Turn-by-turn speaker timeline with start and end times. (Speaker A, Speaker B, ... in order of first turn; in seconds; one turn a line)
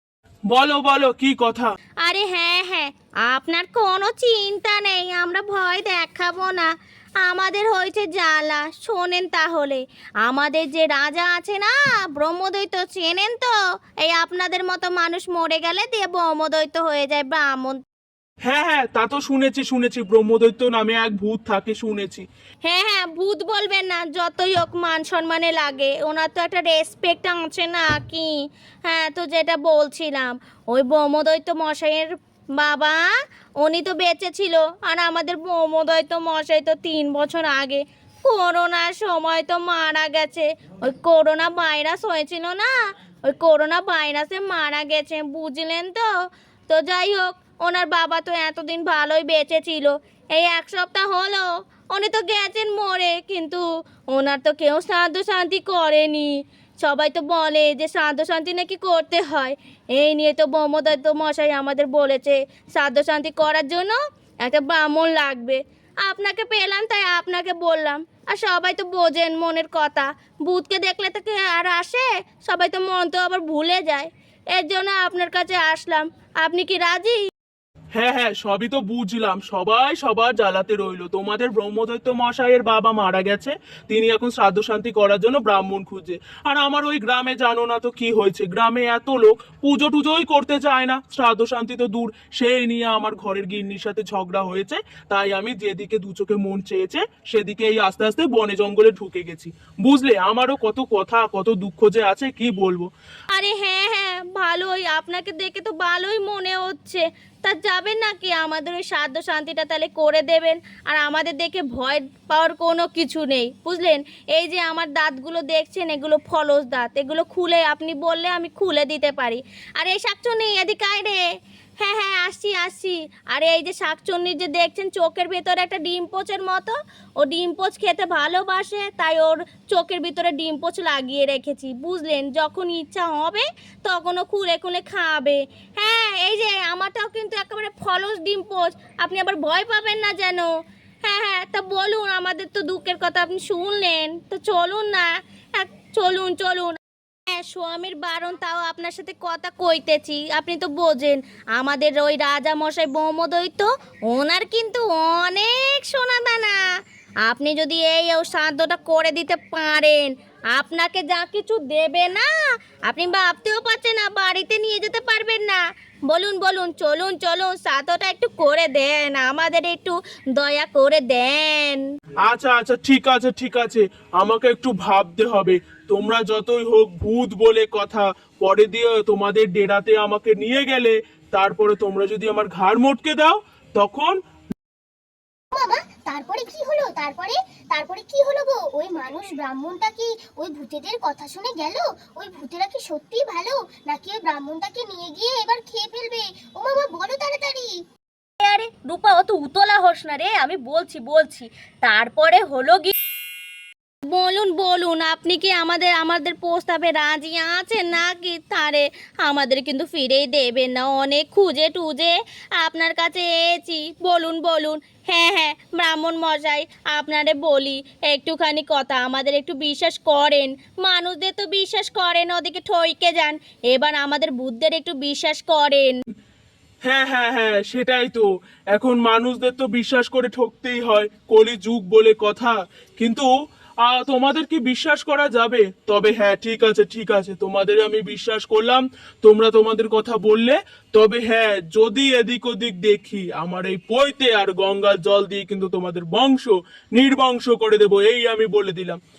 Speaker A: 0.5-1.7
Speaker B: 2.0-6.7
Speaker B: 7.2-17.8
Speaker A: 18.4-22.2
Speaker B: 22.6-28.3
Speaker B: 28.9-33.0
Speaker B: 33.6-42.7
Speaker B: 43.2-46.1
Speaker B: 46.7-77.2
Speaker A: 77.9-102.9
Speaker B: 103.3-121.2
Speaker B: 121.8-140.5
Speaker B: 141.0-146.7
Speaker B: 147.3-156.6
Speaker B: 157.2-162.3
Speaker B: 162.9-171.8
Speaker A: 172.2-184.2
Speaker C: 185.5-197.8
Speaker B: 198.4-202.9
Speaker B: 204.1-225.9
Speaker A: 226.8-233.3
Speaker A: 233.8-249.0